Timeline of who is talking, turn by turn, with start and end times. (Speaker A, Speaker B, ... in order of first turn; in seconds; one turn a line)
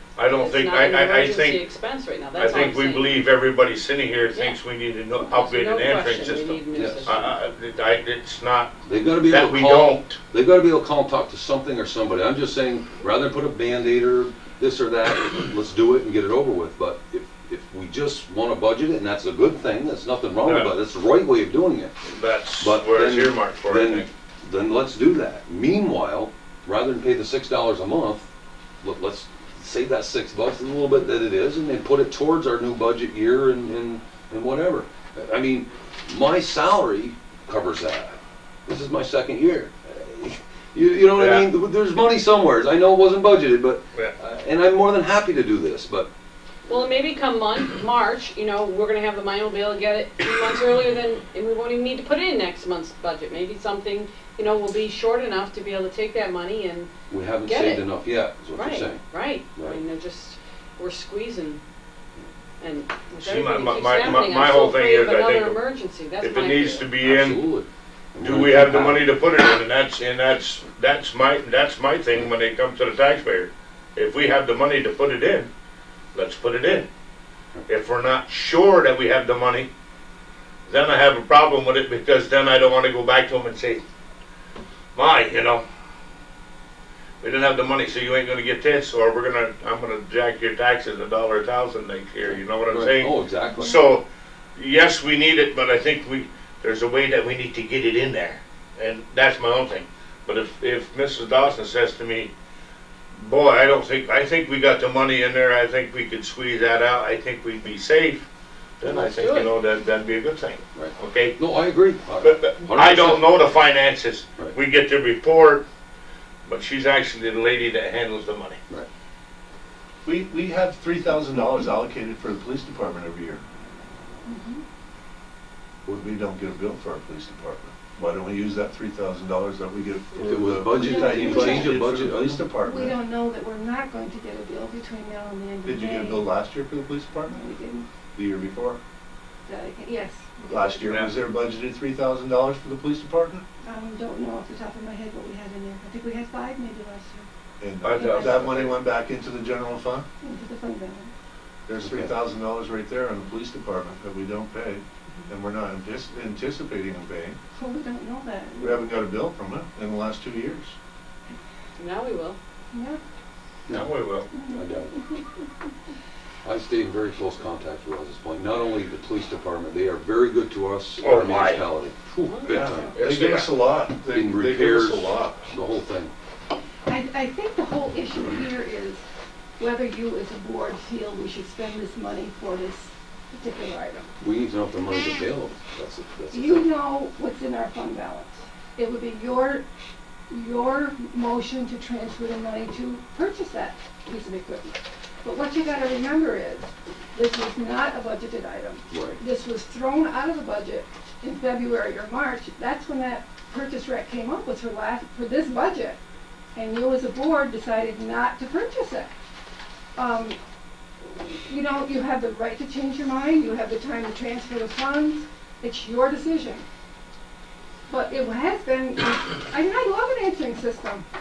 Speaker A: 0.2-1.6
Speaker B: 0.2-3.2
Speaker A: 2.4-10.2
Speaker B: 4.3-4.6
Speaker B: 5.2-7.3
Speaker C: 6.7-7.1
Speaker C: 8.9-21.9
Speaker A: 20.4-20.8
Speaker A: 22.1-24.1
Speaker C: 22.6-28.3
Speaker C: 28.8-46.1
Speaker A: 41.1-41.5
Speaker B: 46.7-56.9
Speaker C: 57.1-59.0
Speaker B: 57.5-57.9
Speaker B: 58.5-61.6
Speaker B: 62.6-66.9
Speaker A: 63.2-65.6
Speaker A: 66.2-67.4
Speaker C: 67.0-69.1
Speaker A: 68.2-75.5
Speaker A: 76.1-76.9
Speaker A: 77.7-79.7
Speaker A: 80.7-83.8
Speaker A: 85.0-85.7
Speaker A: 87.2-94.0
Speaker C: 92.3-93.8
Speaker D: 93.5-93.8
Speaker A: 94.6-102.3
Speaker A: 103.2-108.3
Speaker A: 108.8-111.4
Speaker B: 108.8-109.5
Speaker C: 110.8-113.3
Speaker A: 112.2-115.7
Speaker A: 116.5-118.6
Speaker E: 120.0-123.4
Speaker D: 124.3-124.6
Speaker E: 125.9-133.0
Speaker C: 130.2-132.4
Speaker D: 130.7-131.8
Speaker D: 132.6-136.3
Speaker E: 135.7-137.4
Speaker D: 137.3-137.9
Speaker E: 138.2-138.8
Speaker D: 139.5-141.0
Speaker E: 140.5-143.4
Speaker A: 140.9-141.1
Speaker D: 143.6-147.3
Speaker E: 147.6-150.1
Speaker A: 147.8-148.8
Speaker D: 147.9-148.5
Speaker D: 150.2-151.1
Speaker E: 151.7-157.4
Speaker C: 151.9-152.1
Speaker D: 157.6-158.9
Speaker E: 158.6-160.8
Speaker B: 161.8-162.4
Speaker D: 162.7-163.0
Speaker A: 163.7-164.3
Speaker D: 164.3-165.2
Speaker C: 164.5-165.0
Speaker C: 166.4-172.9
Speaker A: 171.0-171.6
Speaker B: 172.2-172.6
Speaker E: 172.5-175.4
Speaker A: 172.9-173.5
Speaker C: 174.1-176.1
Speaker D: 176.9-179.0
Speaker D: 179.6-184.1
Speaker C: 184.2-186.7
Speaker D: 186.3-189.7
Speaker D: 190.3-206.0
Speaker C: 198.9-199.2
Speaker D: 206.6-209.1
Speaker D: 210.0-210.4
Speaker D: 211.1-216.7
Speaker D: 217.9-221.1